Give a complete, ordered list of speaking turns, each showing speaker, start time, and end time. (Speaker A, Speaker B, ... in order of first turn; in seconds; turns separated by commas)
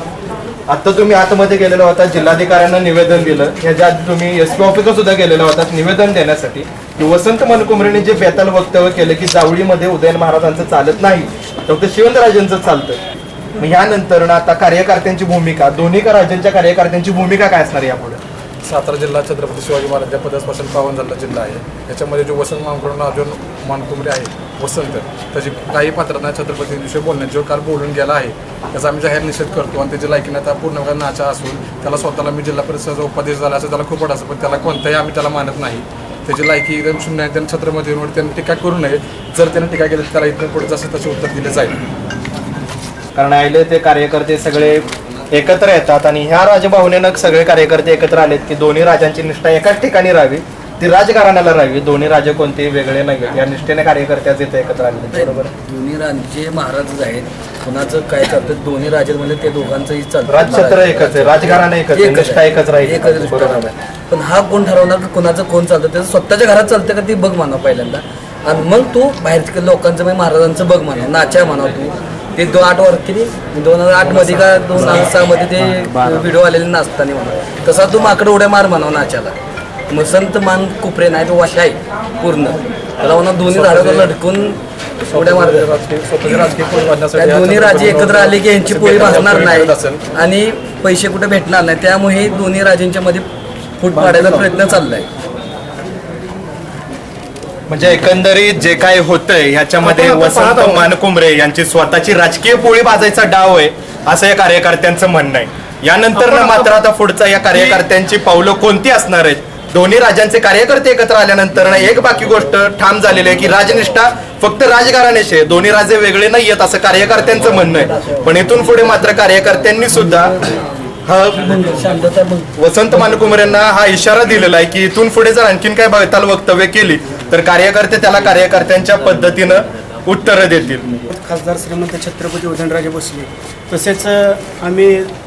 Speaker A: 0.7-13.0, Speaker A: 13.6-18.2, Speaker B: 18.6-41.8, Speaker A: 43.1-55.5, Speaker C: 55.1-79.3, Speaker A: 60.3-63.7, Speaker C: 79.9-84.6, Speaker B: 83.5-84.1, Speaker B: 85.1-90.0, Speaker C: 85.1-85.7, Speaker C: 87.1-93.2, Speaker C: 93.8-95.1, Speaker D: 93.9-94.5, Speaker A: 97.7-120.4, Speaker D: 99.8-100.8, Speaker D: 106.2-106.7, Speaker C: 119.9-120.6, Speaker A: 121.0-121.7, Speaker C: 121.3-122.5, Speaker A: 122.6-130.9, Speaker D: 131.1-135.1